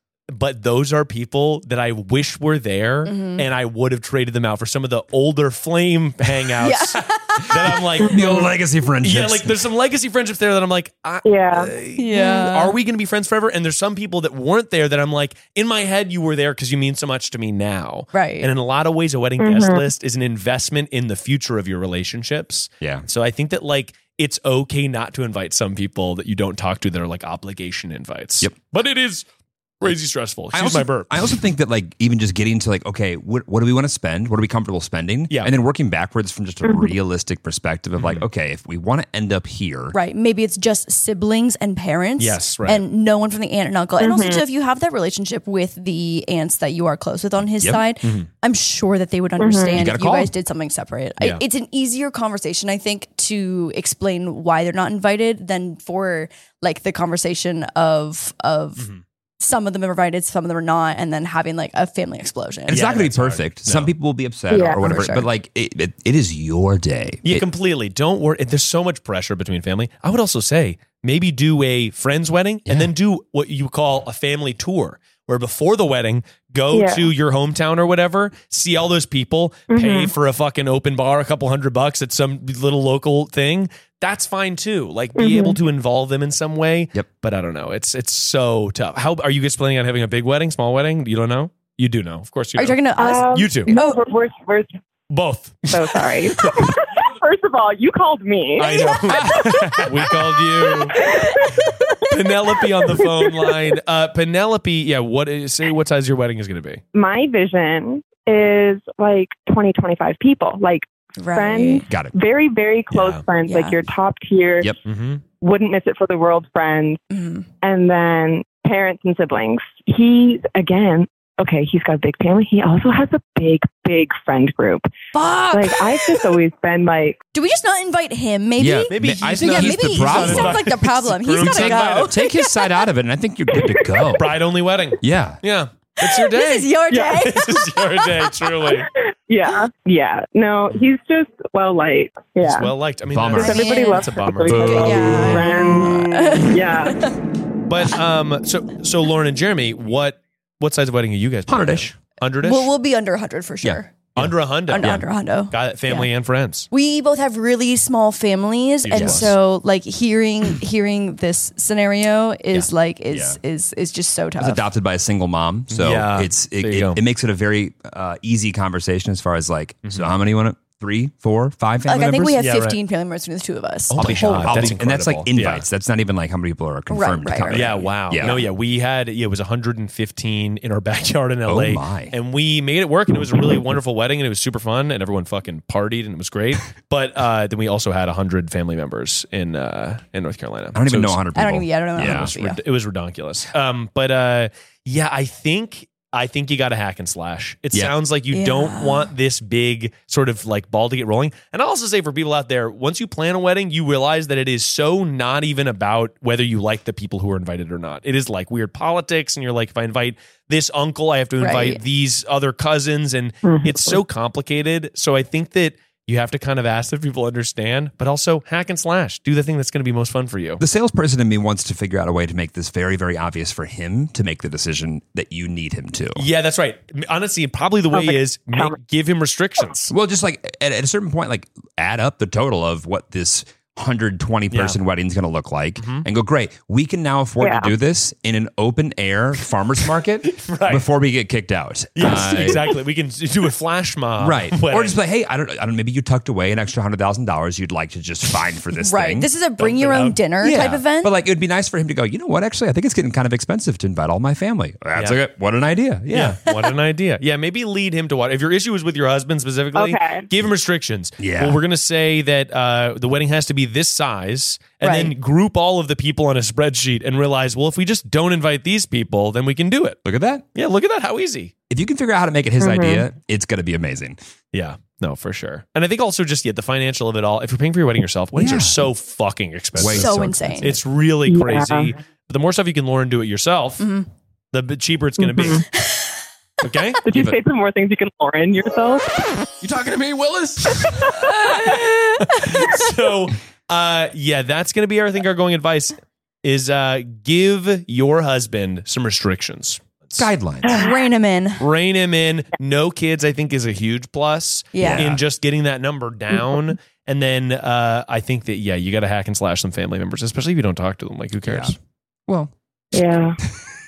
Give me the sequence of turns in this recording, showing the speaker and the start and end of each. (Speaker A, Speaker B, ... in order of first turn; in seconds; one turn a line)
Speaker A: 0.3-8.3
Speaker B: 3.1-3.5
Speaker B: 6.6-8.0
Speaker C: 8.0-8.5
Speaker D: 8.1-9.6
Speaker A: 9.0-29.3
Speaker C: 11.2-11.7
Speaker B: 12.0-12.8
Speaker B: 18.1-18.5
Speaker C: 19.4-19.8
Speaker A: 29.8-31.4
Speaker D: 30.5-40.0
Speaker C: 36.6-36.9
Speaker A: 38.0-38.2
Speaker B: 39.9-58.9
Speaker A: 42.2-42.8
Speaker C: 44.0-44.4
Speaker A: 48.0-48.3
Speaker C: 49.4-49.8
Speaker D: 49.7-50.3
Speaker B: 59.4-62.8
Speaker D: 62.7-67.5
Speaker A: 62.7-63.9
Speaker C: 64.5-64.8
Speaker B: 64.8-65.3
Speaker A: 67.2-92.8
Speaker C: 76.7-77.1
Speaker C: 79.7-80.1
Speaker C: 85.2-85.6
Speaker B: 92.6-94.0
Speaker C: 93.0-94.7
Speaker A: 93.3-93.7
Speaker A: 95.1-96.7
Speaker C: 95.7-103.8
Speaker A: 98.6-101.0
Speaker D: 99.1-99.5
Speaker A: 102.1-106.8
Speaker C: 106.9-114.8
Speaker B: 111.2-111.8
Speaker A: 112.9-113.2
Speaker B: 113.5-113.8
Speaker A: 114.9-115.2
Speaker C: 115.4-117.0
Speaker B: 117.1-117.5
Speaker C: 117.6-124.9
Speaker B: 125.1-125.8
Speaker C: 125.5-127.2
Speaker B: 127.3-132.1
Speaker D: 128.6-130.8
Speaker A: 128.9-132.2
Speaker D: 131.4-134.2
Speaker C: 133.6-134.1
Speaker A: 134.2-138.9
Speaker D: 135.0-135.4
Speaker B: 136.0-137.6
Speaker C: 136.9-137.2
Speaker C: 139.3-142.7
Speaker A: 142.4-146.4
Speaker D: 143.1-143.6
Speaker C: 143.4-147.0
Speaker B: 143.4-144.1
Speaker D: 144.5-146.0
Speaker B: 144.7-147.1
Speaker A: 147.7-152.7
Speaker D: 151.5-151.9
Speaker B: 152.4-153.9
Speaker D: 153.7-155.0
Speaker A: 154.2-156.7
Speaker B: 154.7-156.1
Speaker B: 156.7-164.6
Speaker A: 158.8-159.3
Speaker D: 158.9-159.3
Speaker D: 162.5-163.4
Speaker D: 164.4-172.4
Speaker A: 165.7-167.0
Speaker A: 169.8-170.1
Speaker B: 171.9-174.8
Speaker A: 172.4-172.8
Speaker A: 173.9-175.7
Speaker D: 174.0-178.4
Speaker B: 176.9-178.3
Speaker A: 177.5-191.2
Speaker D: 181.5-182.1
Speaker D: 190.8-192.3
Speaker B: 191.3-192.6
Speaker A: 192.0-220.6
Speaker B: 198.3-199.1
Speaker B: 211.4-211.8
Speaker C: 213.4-214.0
Speaker D: 220.6-226.3
Speaker A: 226.2-229.9
Speaker C: 227.9-228.8
Speaker D: 229.9-242.6
Speaker A: 234.5-234.8
Speaker A: 235.8-236.1
Speaker C: 237.4-237.7
Speaker A: 240.2-240.9
Speaker A: 242.0-245.0
Speaker D: 244.2-249.3
Speaker B: 248.8-251.1
Speaker A: 249.6-250.2
Speaker D: 250.4-256.4
Speaker A: 256.1-270.0
Speaker C: 259.8-260.3
Speaker D: 261.2-261.6
Speaker B: 264.8-265.1
Speaker D: 270.1-270.4
Speaker A: 270.6-271.5
Speaker D: 271.7-274.2
Speaker C: 272.6-273.1
Speaker A: 274.5-283.9
Speaker D: 278.4-278.8
Speaker D: 279.8-280.5
Speaker B: 279.9-280.8
Speaker C: 281.3-282.0
Speaker B: 283.8-284.1
Speaker A: 284.5-285.6
Speaker C: 285.2-285.6
Speaker A: 286.6-287.0
Speaker C: 287.0-289.1
Speaker A: 289.6-300.3
Speaker C: 290.9-291.3
Speaker D: 300.2-300.8
Speaker B: 300.7-301.6
Speaker A: 301.6-311.8
Speaker B: 304.7-305.0
Speaker D: 304.8-305.2
Speaker D: 311.5-311.7
Speaker C: 312.9-313.4